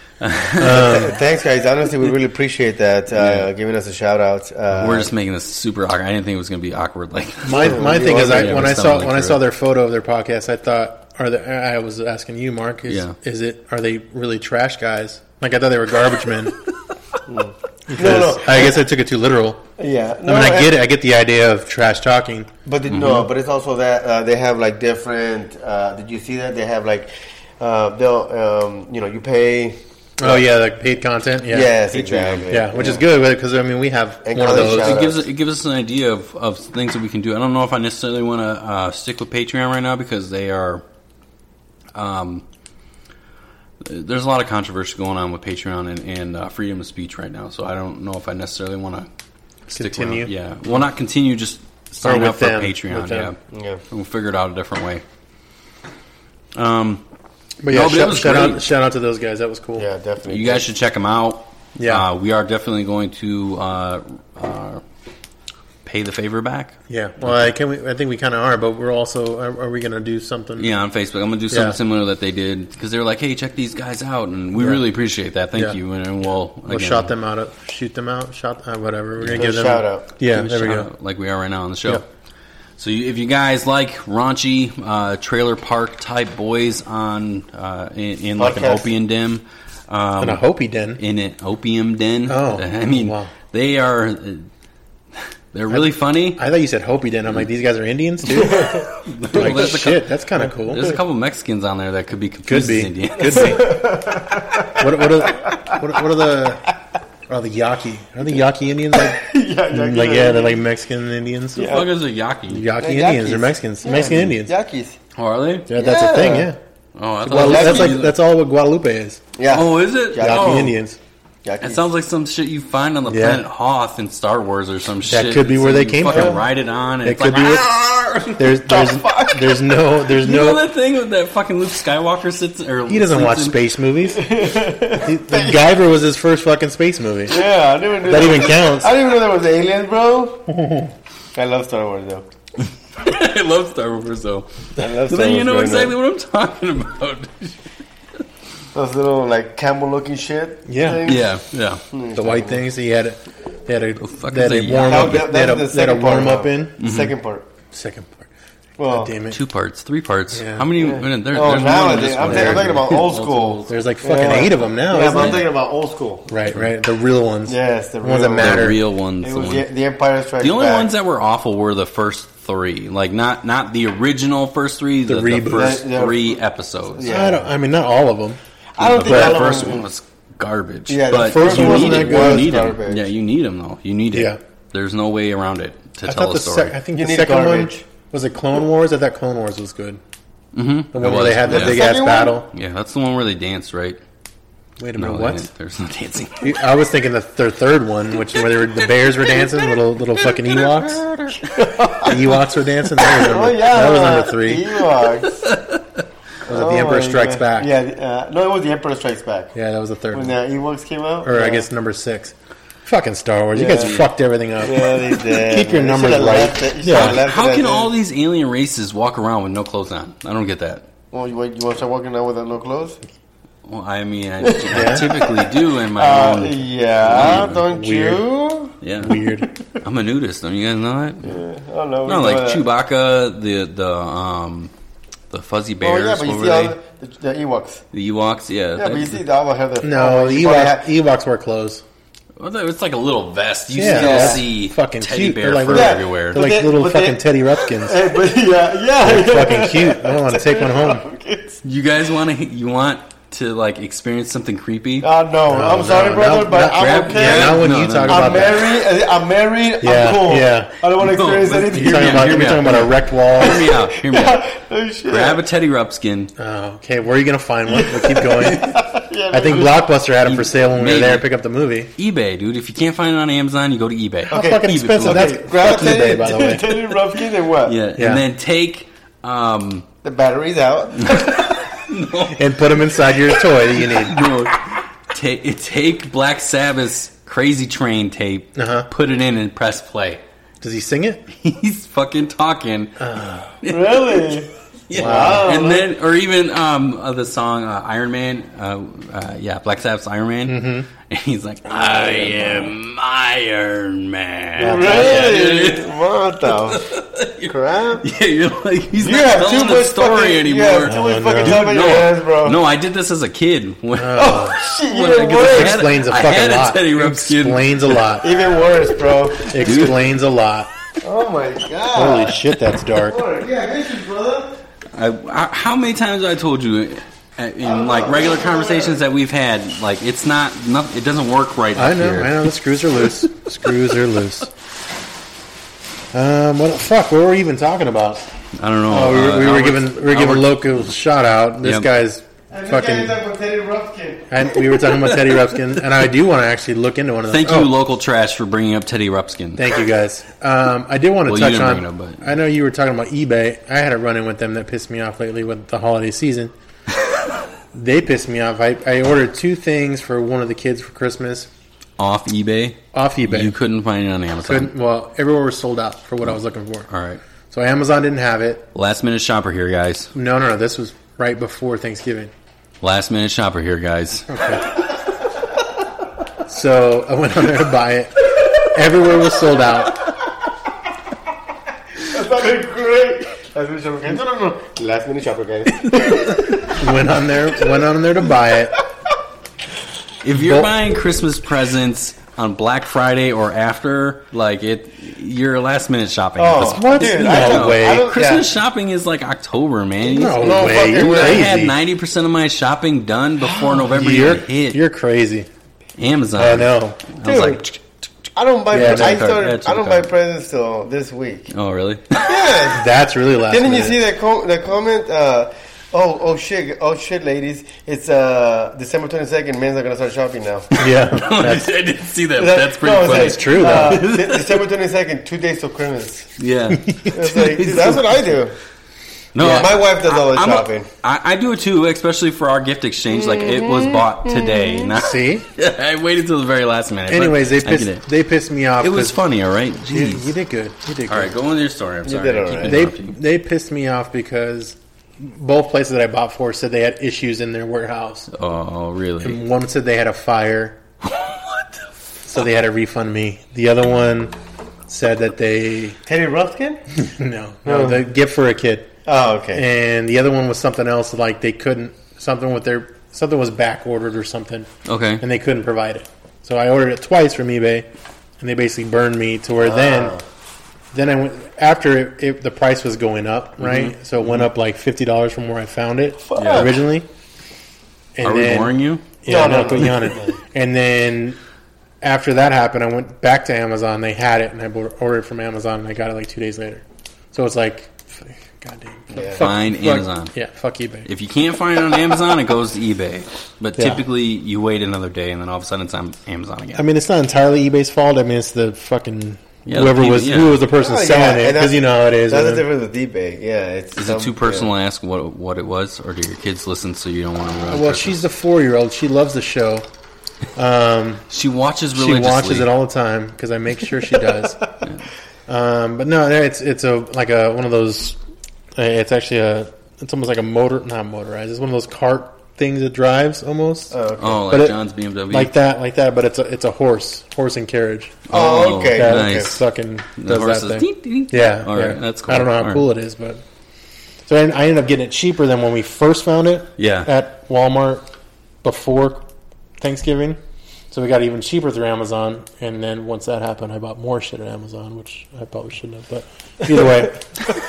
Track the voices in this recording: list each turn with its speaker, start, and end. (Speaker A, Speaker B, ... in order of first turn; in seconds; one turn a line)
Speaker A: 0.2-1.0
Speaker B: 0.6-1.2
Speaker C: 0.6-5.1
Speaker A: 3.2-3.5
Speaker A: 4.8-9.4
Speaker B: 7.4-16.6
Speaker C: 7.5-8.7
Speaker A: 12.9-13.2
Speaker C: 17.3-18.8
Speaker B: 17.9-19.6
Speaker C: 19.8-20.8
Speaker B: 20.2-22.5
Speaker C: 22.6-30.5
Speaker A: 22.9-23.3
Speaker B: 30.2-31.7
Speaker C: 31.5-33.0
Speaker A: 31.9-32.5
Speaker B: 32.5-35.0
Speaker C: 34.2-35.2
Speaker A: 34.4-40.8
Speaker A: 41.9-42.5
Speaker A: 43.8-49.1
Speaker A: 49.7-53.4
Speaker B: 49.7-50.3
Speaker B: 52.0-53.3
Speaker C: 53.5-53.8
Speaker A: 53.9-55.0
Speaker A: 56.5-57.0
Speaker B: 57.6-59.9
Speaker A: 57.7-58.6
Speaker C: 59.8-60.6
Speaker A: 60.2-64.8
Speaker B: 61.8-62.0
Speaker A: 65.8-67.5
Speaker B: 66.9-70.7
Speaker A: 70.6-77.1
Speaker B: 71.5-71.8
Speaker B: 74.6-74.8
Speaker B: 76.6-80.9
Speaker A: 79.2-79.5
Speaker C: 79.3-80.1
Speaker A: 80.3-82.0
Speaker A: 82.8-90.4
Speaker C: 88.4-88.9
Speaker B: 90.2-91.0
Speaker A: 91.0-94.5
Speaker B: 92.3-93.3
Speaker A: 95.5-96.4
Speaker B: 95.7-100.9
Speaker C: 98.4-98.9
Speaker A: 99.0-103.8
Speaker B: 102.5-103.5
Speaker C: 103.2-105.9
Speaker B: 104.8-106.7
Speaker B: 107.3-111.9
Speaker C: 108.9-110.6
Speaker C: 111.6-111.9
Speaker A: 111.7-112.7
Speaker B: 112.5-114.5
Speaker C: 112.8-115.0
Speaker A: 115.2-115.7
Speaker B: 115.7-116.6
Speaker C: 115.7-116.5
Speaker A: 117.0-118.1
Speaker B: 117.2-119.2
Speaker C: 117.3-118.0
Speaker C: 119.4-120.7
Speaker A: 119.5-120.7
Speaker B: 120.2-121.0
Speaker C: 121.4-121.8
Speaker A: 121.6-128.6
Speaker B: 123.1-123.4
Speaker B: 125.1-126.5
Speaker B: 127.0-127.7
Speaker B: 128.3-130.6
Speaker C: 128.7-129.8
Speaker A: 130.1-133.6
Speaker B: 132.9-134.3
Speaker C: 134.1-135.7
Speaker B: 135.0-137.4
Speaker C: 137.3-140.5
Speaker B: 138.0-138.9
Speaker B: 140.5-140.9
Speaker C: 141.3-142.2
Speaker A: 143.0-147.6
Speaker C: 144.8-145.9
Speaker C: 148.7-151.3
Speaker B: 150.7-151.1
Speaker A: 151.0-151.8
Speaker C: 151.9-152.6
Speaker B: 152.1-156.8
Speaker A: 154.0-155.3
Speaker C: 154.8-157.5
Speaker A: 156.8-157.1
Speaker B: 157.7-158.3
Speaker C: 158.8-159.1
Speaker B: 158.9-159.4
Speaker A: 159.3-163.7
Speaker B: 160.3-160.7
Speaker C: 160.8-166.3
Speaker B: 162.2-162.8
Speaker B: 163.7-165.5
Speaker A: 165.1-165.4
Speaker B: 166.3-168.8
Speaker C: 167.5-170.9
Speaker A: 168.4-169.7
Speaker A: 170.4-177.1
Speaker B: 175.1-175.8
Speaker C: 175.5-176.4
Speaker C: 176.9-177.5
Speaker B: 177.0-178.4
Speaker C: 178.8-179.9
Speaker A: 178.8-186.8
Speaker B: 179.0-179.4
Speaker C: 180.9-183.1
Speaker B: 181.1-182.6
Speaker B: 184.1-184.4
Speaker B: 186.0-190.0
Speaker C: 186.9-187.8
Speaker A: 190.5-192.0
Speaker B: 190.9-192.5
Speaker C: 191.4-192.4
Speaker A: 192.5-194.0
Speaker B: 194.8-195.5
Speaker A: 195.0-196.5
Speaker B: 196.4-201.4
Speaker C: 200.8-202.3
Speaker B: 202.0-204.7
Speaker C: 203.0-205.5
Speaker A: 205.4-206.0
Speaker B: 206.5-207.7
Speaker C: 206.5-209.5
Speaker B: 209.5-210.3
Speaker C: 210.1-211.7
Speaker B: 211.2-212.3
Speaker B: 212.8-217.2
Speaker C: 213.5-214.0
Speaker A: 213.7-214.1
Speaker C: 214.6-217.9
Speaker A: 216.9-220.8
Speaker C: 221.1-223.0
Speaker A: 223.7-227.6
Speaker C: 224.4-228.8
Speaker B: 224.7-225.1
Speaker B: 227.1-228.2
Speaker A: 228.8-229.2
Speaker B: 229.0-229.5
Speaker A: 229.8-231.4
Speaker C: 231.2-232.6
Speaker A: 232.0-234.7
Speaker A: 235.3-236.8
Speaker C: 235.8-237.8
Speaker A: 237.9-239.2
Speaker C: 238.8-240.9
Speaker B: 239.8-241.8
Speaker A: 242.4-246.4
Speaker B: 243.7-248.0
Speaker C: 243.8-244.4
Speaker C: 245.7-251.6
Speaker B: 249.0-251.0
Speaker A: 251.6-255.1
Speaker C: 255.0-262.8
Speaker B: 255.5-258.8
Speaker A: 255.9-258.6
Speaker B: 259.8-260.7
Speaker A: 260.9-264.4
Speaker B: 261.6-263.7
Speaker C: 263.4-265.4
Speaker A: 265.1-266.3
Speaker B: 266.4-271.9
Speaker C: 267.7-269.8
Speaker A: 270.2-271.2
Speaker A: 271.9-276.0
Speaker B: 274.3-276.9
Speaker C: 274.3-277.8
Speaker A: 277.6-279.8
Speaker B: 278.0-278.2
Speaker C: 280.0-281.6
Speaker A: 280.9-282.5
Speaker B: 282.3-284.2
Speaker A: 283.7-290.2
Speaker B: 288.6-288.9
Speaker B: 290.6-291.2
Speaker A: 291.3-293.0
Speaker B: 293.0-293.6
Speaker A: 293.6-318.2
Speaker C: 293.7-295.9
Speaker B: 294.9-295.5
Speaker B: 300.5-300.9
Speaker B: 301.7-302.7
Speaker B: 304.6-305.5
Speaker C: 304.6-306.9
Speaker C: 307.5-308.1
Speaker C: 309.0-312.6
Speaker B: 310.9-311.6
Speaker B: 313.9-314.6
Speaker C: 314.1-315.8
Speaker B: 315.4-318.3
Speaker C: 318.2-319.6
Speaker B: 319.5-320.7
Speaker A: 319.6-320.0
Speaker C: 321.0-322.4
Speaker B: 321.9-323.2
Speaker C: 322.9-324.5
Speaker A: 324.9-332.5
Speaker C: 327.6-329.0
Speaker B: 331.7-334.5
Speaker B: 336.1-338.2
Speaker A: 338.6-340.6
Speaker B: 338.9-343.2
Speaker A: 341.6-341.9
Speaker C: 342.5-344.4
Speaker B: 344.3-347.7
Speaker A: 347.3-349.6
Speaker B: 349.6-356.5
Speaker A: 351.2-352.2
Speaker B: 357.7-361.5
Speaker A: 362.0-364.7
Speaker B: 362.9-363.6
Speaker B: 364.4-366.9
Speaker A: 366.9-367.2
Speaker B: 367.5-368.7
Speaker A: 368.7-370.1
Speaker B: 370.1-372.3
Speaker A: 372.8-374.3
Speaker B: 374.3-374.8
Speaker B: 376.4-380.1
Speaker C: 382.0-386.7
Speaker B: 386.6-388.8
Speaker A: 390.2-404.8
Speaker B: 390.3-390.7
Speaker C: 396.4-398.5
Speaker B: 396.6-398.1
Speaker B: 400.1-401.8
Speaker C: 400.2-401.6
Speaker B: 403.5-405.5
Speaker A: 406.0-407.8
Speaker B: 406.4-407.0
Speaker C: 407.2-407.7
Speaker C: 408.3-411.5
Speaker B: 408.7-409.3
Speaker A: 408.8-410.1
Speaker A: 411.5-412.2
Speaker C: 412.1-412.9
Speaker B: 412.7-414.0
Speaker C: 413.5-420.7
Speaker B: 420.8-421.7
Speaker A: 421.1-424.6
Speaker C: 422.4-426.3
Speaker B: 423.0-424.0
Speaker A: 426.4-428.0
Speaker B: 426.7-428.0
Speaker C: 427.1-428.5
Speaker A: 429.3-438.0
Speaker B: 429.4-429.6
Speaker C: 429.4-430.9
Speaker B: 434.9-435.4
Speaker B: 437.1-439.2
Speaker A: 438.8-440.3
Speaker B: 439.9-441.3
Speaker A: 441.1-443.2
Speaker C: 442.0-442.9
Speaker B: 442.6-448.3
Speaker A: 448.3-449.4
Speaker B: 449.2-450.8
Speaker A: 451.0-451.6
Speaker B: 452.2-454.3
Speaker B: 454.9-456.0
Speaker C: 456.1-456.8
Speaker B: 456.9-458.9
Speaker C: 457.6-458.0
Speaker C: 459.1-459.6
Speaker B: 459.5-464.7
Speaker A: 464.9-465.2
Speaker B: 465.2-467.9
Speaker B: 468.4-470.2
Speaker C: 469.6-470.2
Speaker B: 470.9-477.1
Speaker A: 473.6-473.9
Speaker C: 476.3-476.8
Speaker A: 476.4-476.7
Speaker B: 478.1-481.4
Speaker A: 478.2-479.1
Speaker C: 479.2-480.3
Speaker B: 482.0-491.1
Speaker C: 489.1-489.4
Speaker A: 489.3-490.3
Speaker A: 491.0-496.8
Speaker B: 493.8-494.0
Speaker B: 496.7-502.6
Speaker A: 499.6-500.6
Speaker C: 500.8-504.7
Speaker A: 504.0-508.2
Speaker B: 507.7-509.9
Speaker B: 510.6-511.2
Speaker A: 511.3-512.7
Speaker B: 511.9-514.6
Speaker B: 515.5-518.2
Speaker B: 518.8-523.9
Speaker C: 523.9-524.4
Speaker A: 524.2-525.5
Speaker B: 524.5-524.8
Speaker B: 525.3-528.2
Speaker A: 528.3-529.6
Speaker C: 528.3-529.6
Speaker B: 528.9-533.4
Speaker A: 530.2-532.9
Speaker B: 534.2-538.0
Speaker A: 536.8-537.1
Speaker B: 538.6-539.2
Speaker B: 539.8-540.4
Speaker B: 540.9-547.4